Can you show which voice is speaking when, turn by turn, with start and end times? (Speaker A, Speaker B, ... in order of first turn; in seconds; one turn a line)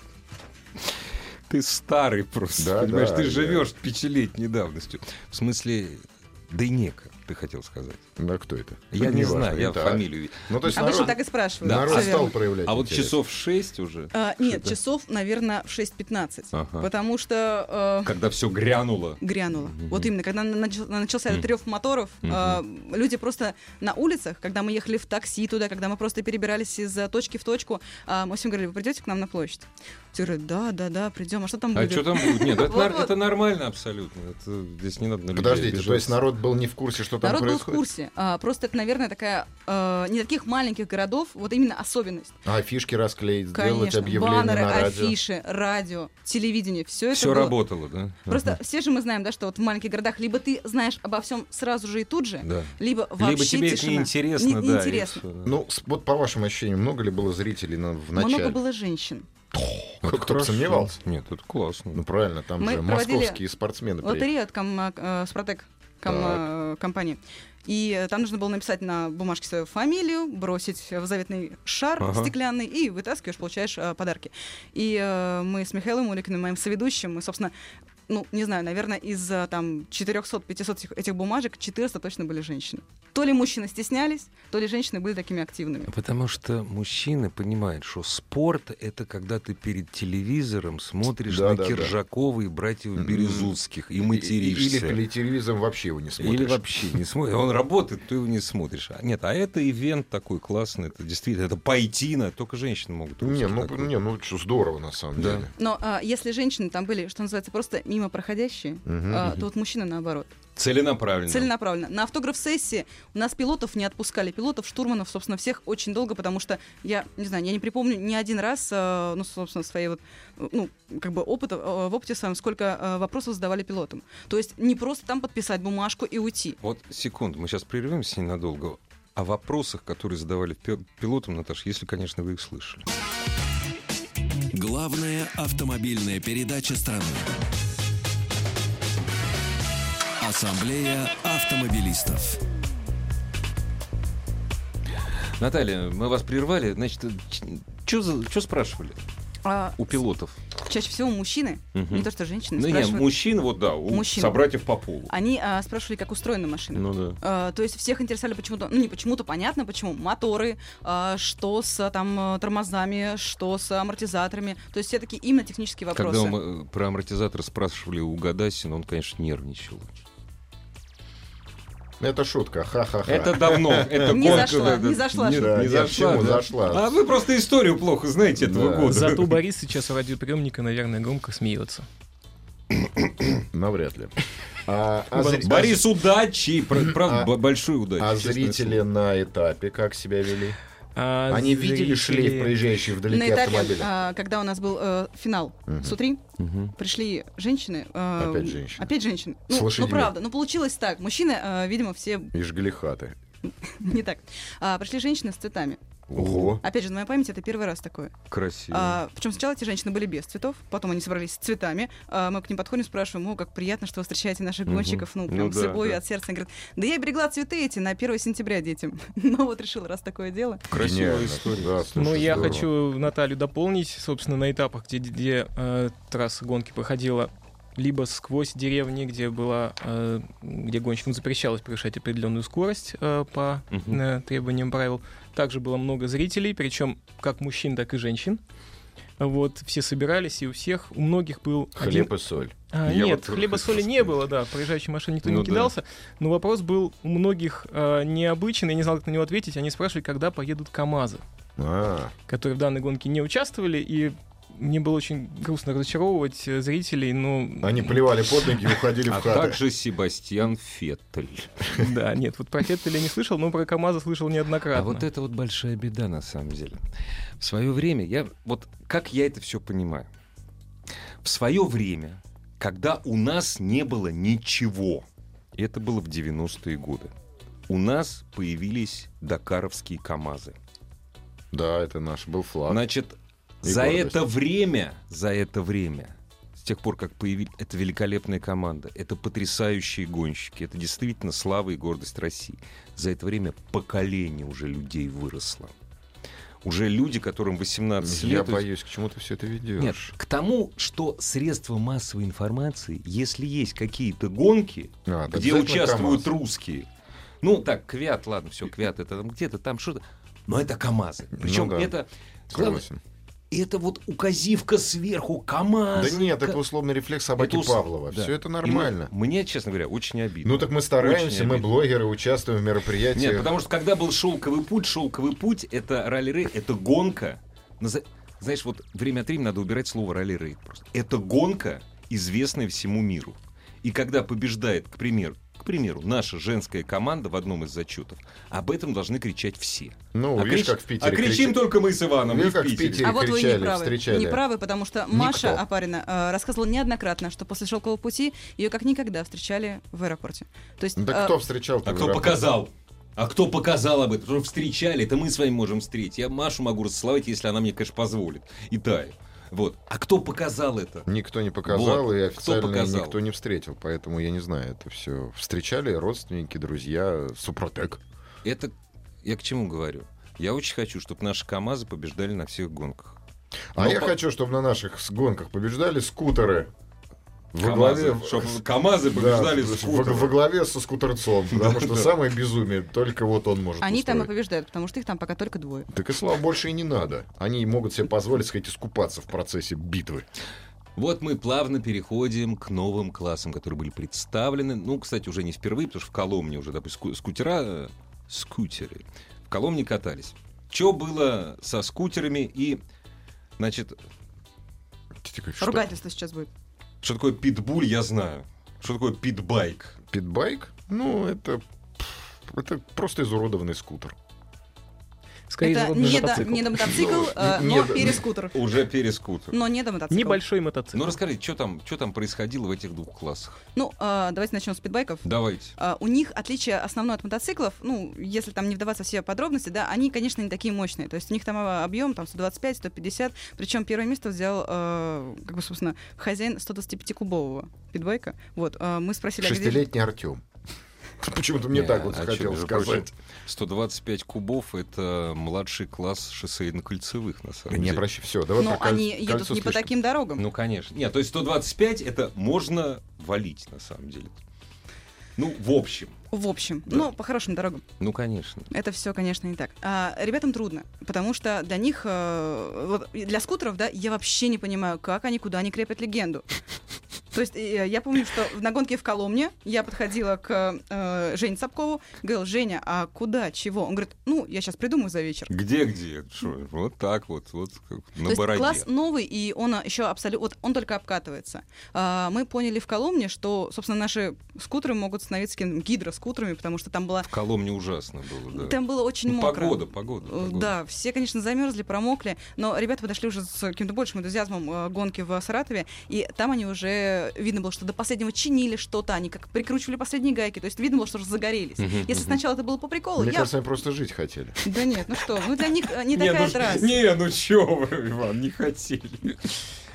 Speaker A: 1.5-8.0
Speaker B: 2.6-3.7
Speaker B: 8.2-13.2
Speaker A: 8.9-14.8
Speaker C: 10.7-12.3
Speaker C: 14.1-18.1
Speaker A: 16.5-16.9
Speaker A: 18.0-20.1
Speaker C: 19.2-33.1
Speaker A: 22.2-22.6
Speaker A: 31.7-36.2
Speaker B: 35.3-37.8
Speaker C: 37.2-42.4
Speaker B: 42.4-45.2
Speaker C: 43.5-47.5
Speaker A: 47.1-48.6
Speaker C: 48.3-55.2
Speaker A: 52.4-55.6
Speaker B: 55.4-58.6
Speaker C: 58.1-59.3
Speaker B: 59.5-61.0
Speaker A: 60.0-62.0
Speaker B: 61.9-64.3
Speaker C: 62.6-63.4
Speaker C: 64.0-77.5
Speaker B: 66.0-66.5
Speaker A: 72.0-72.3
Speaker C: 78.1-85.9
Speaker A: 85.9-95.0
Speaker B: 91.3-92.0
Speaker B: 93.0-93.5
Speaker B: 94.1-97.0
Speaker A: 96.2-103.9
Speaker B: 103.2-105.5
Speaker A: 105.2-105.5
Speaker C: 105.6-110.3
Speaker B: 108.8-109.3
Speaker A: 110.5-111.5
Speaker C: 111.3-126.6
Speaker A: 126.6-132.8
Speaker D: 134.5-137.3
Speaker D: 140.2-142.4
Speaker A: 145.4-149.0
Speaker C: 149.4-149.8
Speaker A: 149.8-150.4
Speaker C: 150.6-153.1
Speaker A: 151.7-155.1
Speaker C: 153.9-154.4
Speaker C: 155.1-166.4
Speaker A: 156.7-157.2
Speaker A: 165.9-170.0
Speaker B: 172.0-174.7
Speaker A: 173.1-179.3
Speaker C: 174.1-175.6
Speaker B: 175.3-176.9
Speaker B: 178.4-179.1
Speaker E: 178.9-181.8
Speaker A: 182.7-183.4
Speaker B: 183.5-185.8
Speaker E: 185.1-185.5
Speaker A: 185.4-188.8
Speaker B: 186.7-187.3
Speaker B: 188.0-190.6
Speaker E: 190.9-192.5
Speaker B: 191.3-193.9
Speaker C: 193.1-196.2
Speaker B: 195.7-196.0
Speaker A: 196.4-196.7
Speaker C: 196.8-202.3
Speaker B: 198.2-198.9
Speaker B: 199.5-200.1
Speaker B: 202.3-203.2
Speaker C: 203.4-205.8
Speaker B: 206.1-206.6
Speaker A: 206.1-206.6
Speaker C: 206.6-208.2
Speaker A: 208.3-209.0
Speaker C: 208.7-220.6
Speaker A: 214.7-216.0
Speaker A: 220.7-222.6
Speaker B: 220.7-222.7
Speaker E: 221.9-238.4
Speaker A: 233.7-234.0
Speaker E: 239.2-242.1
Speaker B: 241.8-242.5
Speaker E: 242.7-251.2
Speaker A: 242.8-244.1
Speaker A: 245.2-245.7
Speaker B: 251.6-252.1
Speaker E: 252.3-258.0
Speaker B: 257.6-259.6
Speaker A: 259.1-261.7
Speaker E: 261.7-265.0
Speaker A: 264.7-266.8
Speaker A: 267.4-270.1
Speaker A: 271.2-277.1
Speaker A: 277.7-280.6
Speaker B: 281.5-282.8
Speaker A: 282.7-295.7
Speaker B: 283.6-284.2
Speaker A: 296.6-298.6
Speaker B: 298.0-300.1
Speaker A: 299.8-306.9
Speaker B: 305.1-306.3
Speaker A: 307.4-312.8
Speaker B: 311.4-311.9
Speaker B: 312.5-313.0
Speaker A: 313.5-316.6
Speaker B: 315.9-319.1
Speaker A: 317.4-321.7
Speaker B: 320.4-323.5
Speaker A: 323.1-343.1
Speaker B: 340.1-341.6
Speaker B: 342.2-344.4
Speaker C: 343.0-351.3
Speaker B: 345.1-345.6
Speaker B: 351.0-352.4
Speaker A: 351.8-361.1
Speaker B: 361.1-368.0
Speaker A: 361.6-363.1
Speaker A: 368.4-368.7
Speaker A: 369.2-373.2
Speaker B: 373.7-376.7
Speaker A: 373.8-374.1
Speaker B: 377.5-384.3
Speaker A: 377.6-380.4
Speaker A: 381.5-382.1
Speaker C: 383.8-385.9
Speaker B: 385.9-390.2
Speaker A: 390.9-402.8
Speaker A: 403.6-404.0
Speaker B: 405.2-405.9
Speaker C: 405.6-406.5
Speaker A: 407.0-410.0
Speaker B: 410.1-414.1
Speaker E: 415.5-416.9
Speaker C: 415.6-418.8
Speaker B: 416.2-418.2
Speaker A: 418.0-419.6
Speaker C: 419.5-420.4
Speaker E: 420.1-421.1
Speaker A: 420.9-423.6
Speaker C: 423.7-439.8
Speaker A: 425.2-425.7
Speaker B: 439.4-440.4
Speaker B: 441.2-443.1
Speaker A: 441.7-448.0
Speaker B: 447.7-449.9
Speaker C: 448.6-450.4
Speaker A: 450.4-454.4
Speaker A: 455.4-456.1
Speaker C: 456.3-457.8
Speaker A: 458.0-458.7
Speaker C: 458.7-466.5
Speaker C: 467.3-475.5
Speaker A: 475.5-478.9
Speaker C: 478.2-487.3
Speaker A: 487.3-490.7
Speaker C: 488.5-503.5
Speaker A: 501.8-502.4
Speaker B: 503.1-504.7
Speaker C: 504.6-507.0
Speaker A: 506.1-509.6